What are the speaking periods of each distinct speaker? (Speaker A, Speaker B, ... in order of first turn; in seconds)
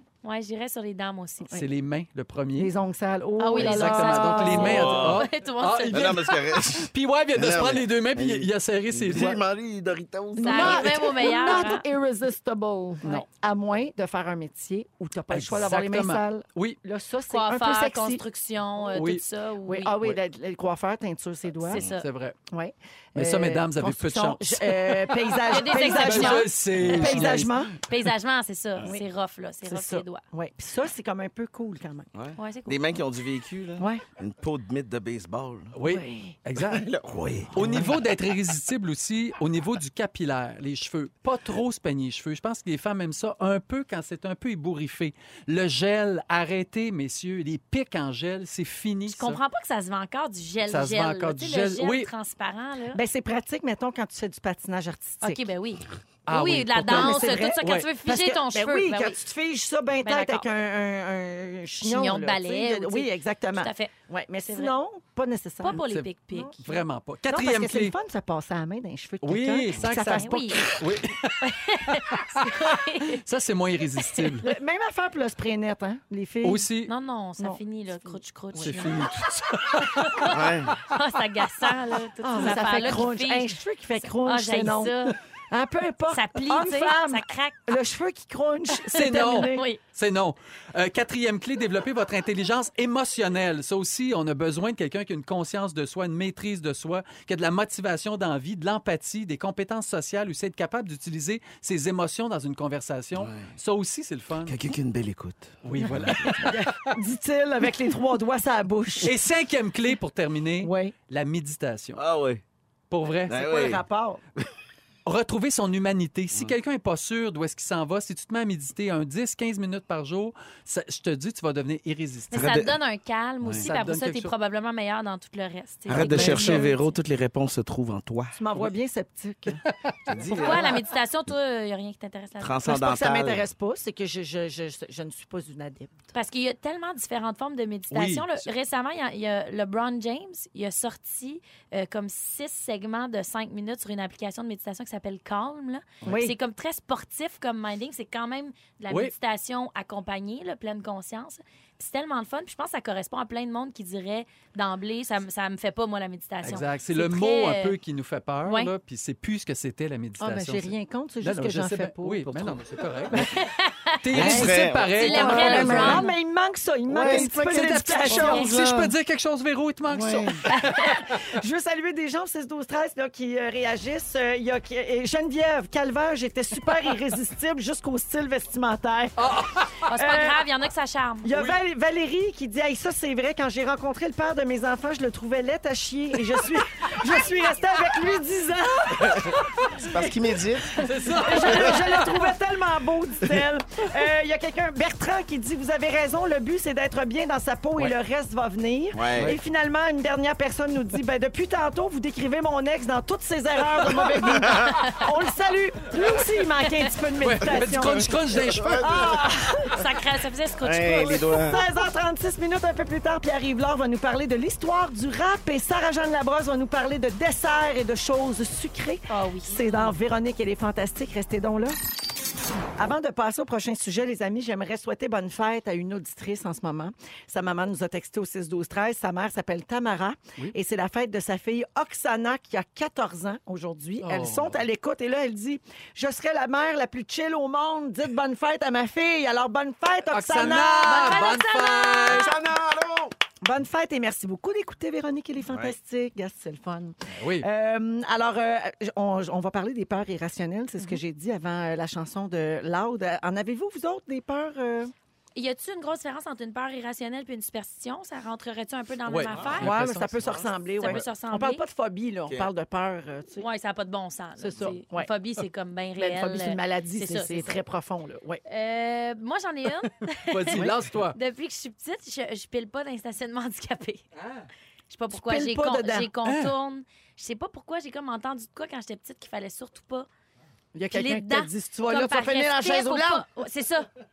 Speaker A: 0.2-1.5, 3.4-6.2, 10.4-11.8, 17.3-19.9, 21.7-22.1, 25.5-30.2, 32.4-32.9, 49.1-53.0, 55.2-59.2, 60.0-60.5, 61.8-63.9, 65.6-66.6, 70.1-70.6, 71.4-73.2, 74.0-74.5, 76.9-79.1, 79.8-85.2, 86.1-87.8, 88.7-89.8, 122.3-126.9, 130.3-132.6, 136.1-157.8, 158.4-158.7, 163.1-164.1, 165.0-166.1, 168.1-168.5, 170.5-170.9, 179.9-181.4, 204.6-205.1, 209.7-211.4, 219.1-219.9, 240.7-242.2, 255.4-259.8, 260.8-261.6, 263.4-267.6, 268.5-274.1, 274.9-280.1, 280.9-283.9
Speaker B: 1.5-2.7, 3.6-9.4, 15.3-16.8, 18.9-19.2, 21.7-22.4, 23.2-27.5, 35.7-36.9, 37.5-49.4, 50.7-52.1, 56.3-57.9, 65.7-66.1, 66.6-67.9, 69.2-74.5, 76.4-76.9, 78.6-80.3, 88.9-104.6, 105.6-106.9, 109.0-112.0, 112.9-113.4, 115.1-122.5, 123.6-124.3, 129.7-130.3, 137.9-138.5, 156.4-163.3, 164.0-166.1, 167.0-171.2, 179.2-179.7, 190.8-192.3, 207.2-209.1, 234.0-234.6, 240.1-242.3, 247.2-247.5, 259.1-261.0, 270.3-271.2, 274.2-274.5, 276.2-276.5
Speaker C: 2.6-5.0, 10.4-18.2, 19.7-21.8, 22.5-27.8, 29.6-32.1, 33.8-34.0, 35.9-36.4, 37.6-37.9, 52.9-55.4, 56.8-66.6, 67.3-70.7, 74.4-76.7, 77.4-79.1, 82.2-89.7, 106.1-109.2, 110.6-111.0, 113.3-114.2, 126.0-126.7, 128.3-129.6, 132.7-136.0, 146.1-146.3, 160.2-162.7, 164.1-168.9, 171.3-179.4, 180.0-180.4, 181.2-189.3, 190.8-209.8, 211.1-221.8, 222.8-241.4, 243.4-254.9, 259.6-263.5, 264.4-265.1, 266.0-268.4, 270.5-270.8, 275.1-276.1, 280.7-283.2
Speaker D: 4.5-5.3, 5.9-11.2, 32.1-35.7, 36.6-37.9, 80.3-80.8, 103.2-103.5, 104.5-106.5, 112.0-112.4, 113.3-113.8, 122.3-122.8, 123.4-123.7, 125.9-128.3, 130.1-130.8, 132.4-133.5, 164.1-166.0, 166.9-168.1, 169.9-170.4, 189.0-190.8, 191.4-191.9, 198.9-199.4, 204.4-204.7, 207.6-209.3, 210.6-211.6, 242.1-243.2, 245.5-245.8, 259.3-260.5